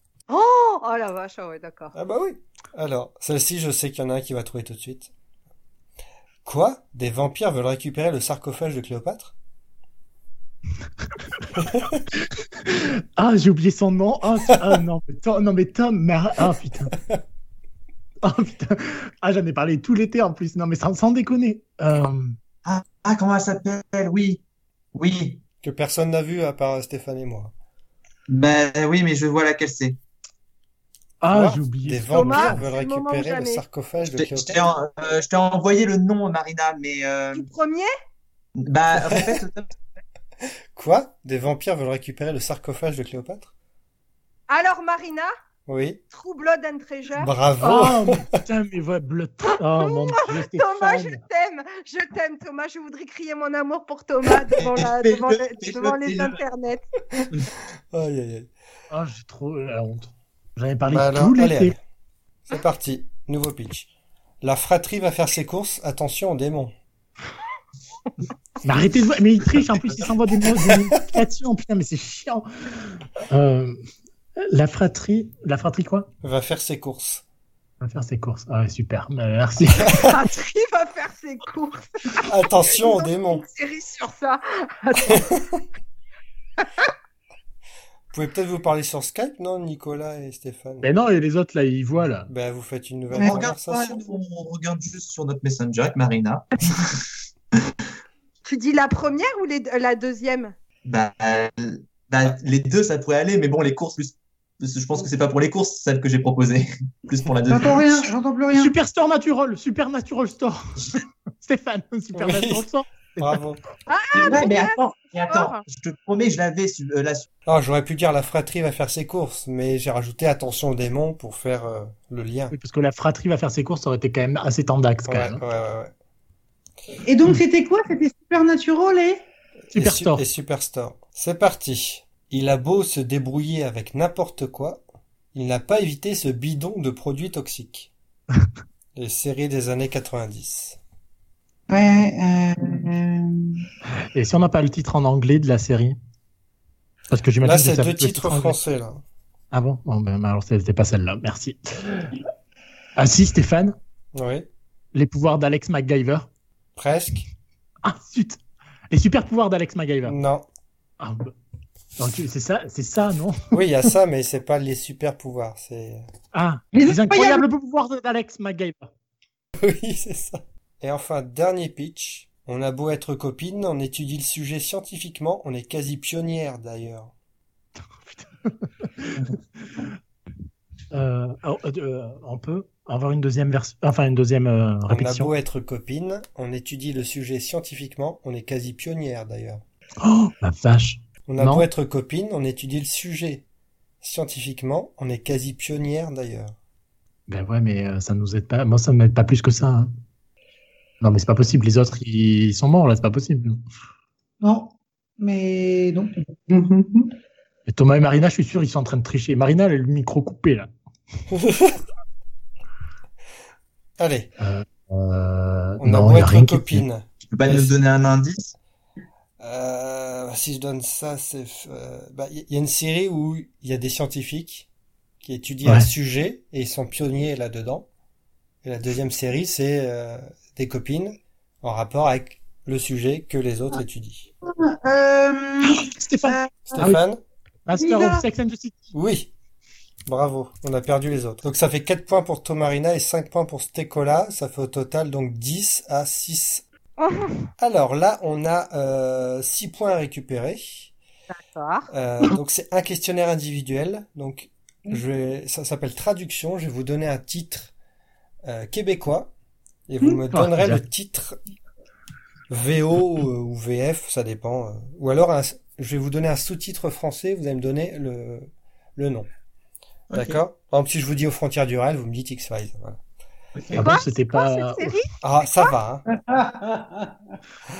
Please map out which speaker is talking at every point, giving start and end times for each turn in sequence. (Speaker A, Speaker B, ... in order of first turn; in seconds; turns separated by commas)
Speaker A: 0.3-1.9, Speaker B: 1.9-5.1, Speaker B: 6.4-9.3, Speaker B: 11.6-11.9, Speaker C: 12.2-16.9, Speaker C: 18.2-22.4, Speaker D: 22.6-24.4, Speaker D: 24.9-25.4, Speaker B: 25.6-27.5, Speaker D: 28.3-30.0, Speaker C: 31.2-32.6, Speaker B: 31.3-34.7, Speaker A: 32.1-33.6, Speaker D: 34.1-37.5, Speaker A: 37.3-37.9, Speaker D: 38.6-39.7, Speaker B: 39.1-39.4, Speaker B: 40.7-43.5, Speaker A: 44.5-45.3, Speaker B: 45.7-46.0, Speaker A: 46.1-47.3, Speaker B: 47.2-48.4, Speaker C: 47.6-51.2, Speaker A: 49.7-56.8, Speaker D: 54.5-56.4, Speaker B: 57.9-58.5, Speaker C: 58.9-61.7, Speaker B: 60.9-61.8, Speaker B: 62.5-63.9, Speaker B: 64.4-66.7, Speaker C: 68.6-73.8, Speaker B: 70.6-71.2, Speaker C: 74.4-76.1, Speaker B: 76.2-77.2, Speaker C: 77.8-79.9, Speaker B: 79.8-80.2, Speaker A: 79.9-85.3, Speaker B: 82.2-83.4, Speaker B: 85.1-85.6, Speaker B: 88.1-90.9, Speaker C: 90.8-92.3, Speaker B: 92.3-94.0, Speaker E: 93.2-93.5, Speaker D: 93.2-97.0, Speaker A: 98.4-100.5, Speaker D: 100.8-108.0, Speaker E: 107.5-108.7, Speaker C: 108.5-113.4, Speaker B: 112.1-112.7, Speaker B: 113.2-113.6, Speaker A: 113.9-115.6, Speaker D: 114.1-117.3, Speaker B: 117.5-122.5, Speaker C: 122.5-125.4, Speaker B: 125.0-125.9, Speaker E: 127.0-129.2, Speaker B: 129.7-134.8, Speaker C: 129.7-130.2, Speaker B: 135.3-137.9, Speaker B: 138.9-140.8, Speaker E: 141.7-143.7, Speaker C: 144.1-146.0, Speaker C: 147.1-148.6, Speaker B: 147.4-149.0, Speaker C: 149.5-152.2, Speaker C: 152.9-153.8, Speaker B: 154.1-154.5, Speaker C: 154.9-156.3, Speaker B: 156.8-157.3, Speaker C: 157.8-158.4, Speaker C: 158.9-160.2, Speaker B: 160.1-160.4, Speaker C: 161.0-161.3, Speaker C: 162.0-163.5, Speaker B: 163.5-166.1, Speaker C: 166.3-168.9, Speaker E: 166.7-167.4, Speaker B: 169.6-177.1, Speaker C: 178.0-179.8, Speaker C: 180.9-185.3, Speaker B: 184.9-189.6, Speaker C: 190.0-191.7, Speaker B: 191.3-193.4, Speaker B: 194.0-196.5, Speaker C: 197.3-199.9, Speaker C: 201.0-203.6, Speaker E: 204.4-207.1, Speaker C: 207.7-210.7, Speaker B: 211.3-211.8, Speaker B: 214.0-214.3, Speaker C: 214.4-216.8, Speaker B: 215.8-217.7, Speaker D: 217.2-218.5, Speaker B: 219.4-224.7, Speaker B: 225.2-227.9, Speaker B: 228.6-234.3, Speaker E: 234.4-236.8, Speaker C: 235.7-237.0, Speaker B: 236.7-237.2, Speaker C: 237.7-238.9, Speaker E: 237.7-238.2, Speaker B: 238.9-239.3, Speaker B: 240.1-246.6, Speaker A: 247.0-247.5, Speaker B: 247.6-250.9, Speaker A: 251.3-251.9, Speaker B: 251.9-257.7, Speaker B: 258.4-259.3, Speaker B: 259.9-261.4, Speaker C: 260.3-260.8, Speaker B: 262.5-269.3, Speaker D: 270.1-270.4, Speaker B: 270.1-273.0, Speaker D: 273.5-273.9, Speaker C: 273.7-275.0, Speaker A: 273.8-275.7, Speaker B: 275.2-276.0, Speaker E: 276.1-277.1